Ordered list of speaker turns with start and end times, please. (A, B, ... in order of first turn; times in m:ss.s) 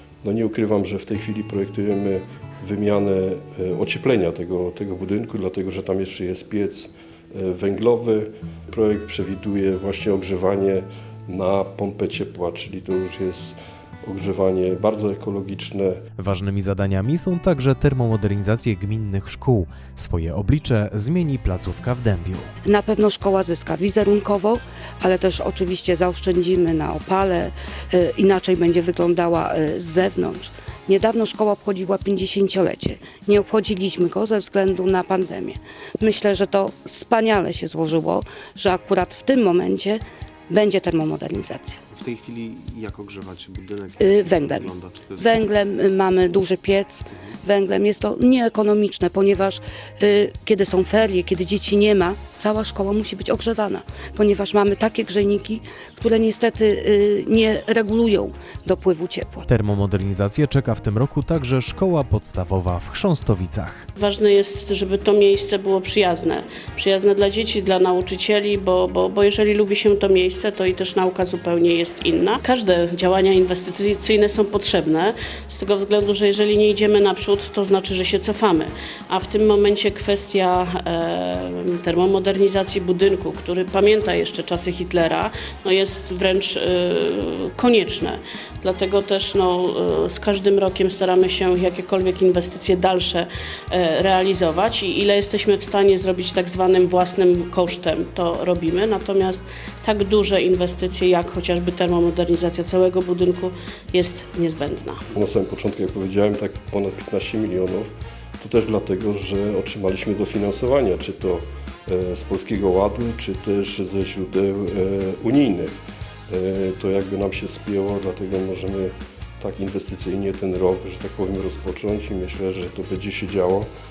0:00.2-0:16.0 A
0:16.2-0:22.5 B
0:22.6-0:41.8 C
0:41.9-0:45.3 D
0:44.0-0:59.5 C
0:59.5-1:03.9 B
1:04.0-1:45.0 E
1:45.1-2:03.7 A